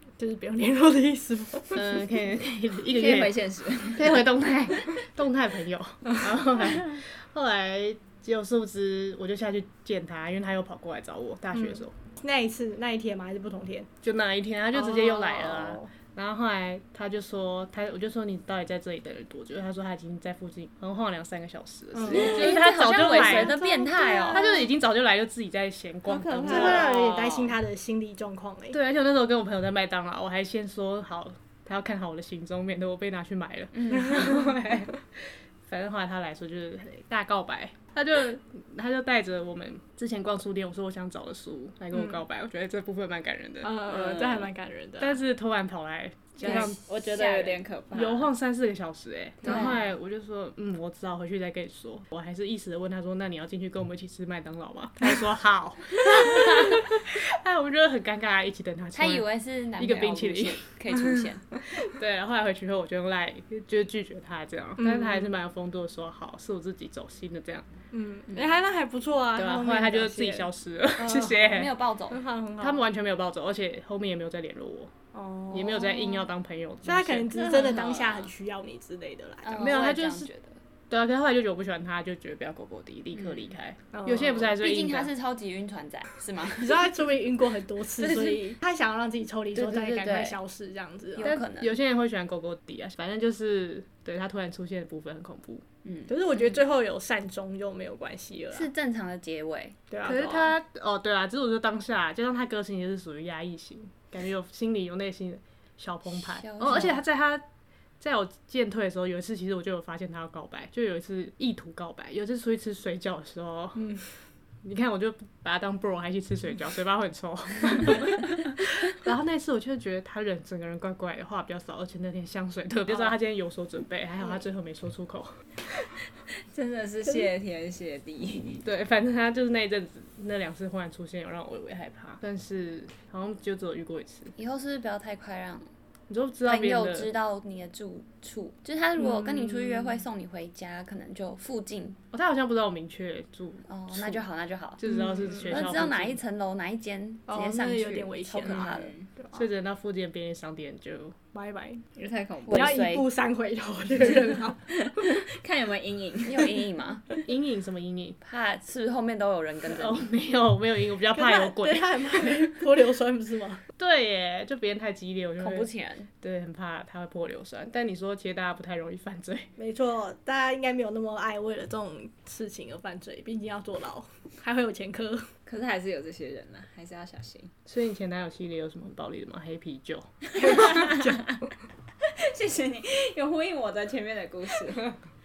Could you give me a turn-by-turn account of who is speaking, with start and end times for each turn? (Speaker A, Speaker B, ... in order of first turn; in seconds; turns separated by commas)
Speaker A: 0.2-2.0, Speaker B: 1.7-3.4, Speaker C: 2.9-4.2, Speaker B: 3.9-11.9, Speaker A: 11.6-13.9, Speaker B: 14.0-23.6, Speaker A: 14.7-15.9, Speaker A: 21.9-24.7, Speaker D: 22.1-24.4, Speaker B: 24.3-26.9, Speaker C: 26.1-26.9, Speaker A: 26.4-28.8, Speaker D: 26.6-27.5, Speaker B: 28.7-43.7, Speaker D: 33.7-34.2, Speaker A: 33.9-34.7, Speaker A: 41.9-42.2, Speaker A: 43.6-45.2, Speaker C: 43.9-44.4, Speaker B: 45.0-47.4, Speaker C: 46.4-48.3, Speaker B: 47.9-59.2, Speaker C: 49.4-49.7, Speaker D: 49.5-49.7, Speaker A: 49.5-49.7, Speaker D: 58.9-61.5, Speaker B: 59.8-60.7, Speaker B: 61.7-67.7, Speaker A: 64.8-65.3, Speaker A: 67.9-70.5, Speaker B: 69.3-71.7, Speaker D: 71.0-72.2, Speaker A: 72.1-72.8, Speaker B: 72.6-74.9, Speaker A: 75.1-76.3, Speaker B: 75.5-77.3, Speaker A: 76.8-79.7, Speaker C: 77.3-78.3, Speaker D: 79.4-80.6, Speaker B: 79.6-80.3, Speaker B: 80.9-85.1, Speaker A: 83.9-84.5, Speaker D: 84.5-86.9, Speaker A: 86.6-91.3, Speaker D: 88.0-88.4, Speaker D: 89.5-90.4, Speaker D: 91.1-91.7, Speaker B: 91.2-95.6, Speaker D: 95.8-96.6, Speaker A: 96.1-98.7, Speaker D: 98.5-100.5, Speaker A: 99.9-100.4, Speaker B: 100.0-107.4, Speaker D: 106.1-107.0, Speaker B: 108.0-113.9, Speaker A: 113.8-114.1, Speaker B: 114.6-125.3, Speaker C: 126.3-128.6, Speaker B: 128.6-134.3, Speaker D: 134.3-135.7, Speaker B: 136.1-137.1, Speaker D: 136.4-142.0, Speaker A: 139.0-140.0, Speaker B: 142.1-144.2, Speaker D: 143.7-144.8, Speaker B: 144.8-146.2, Speaker A: 144.9-145.6, Speaker D: 145.5-148.9, Speaker A: 147.3-149.4, Speaker C: 148.5-149.1, Speaker B: 149.3-151.2, Speaker A: 151.3-151.8, Speaker C: 151.9-152.8, Speaker D: 152.5-153.1, Speaker A: 152.5-154.7, Speaker C: 154.7-156.6, Speaker D: 156.2-157.1, Speaker B: 157.2-158.2, Speaker D: 158.2-160.1, Speaker B: 159.7-162.3, Speaker A: 161.1-163.6, Speaker B: 163.8-165.7, Speaker D: 165.4-166.1, Speaker B: 166.2-169.5, Speaker A: 169.6-175.3, Speaker C: 175.4-177.5, Speaker B: 177.7-180.1, Speaker C: 180.3-181.3, Speaker A: 180.4-181.4, Speaker C: 182.0-184.9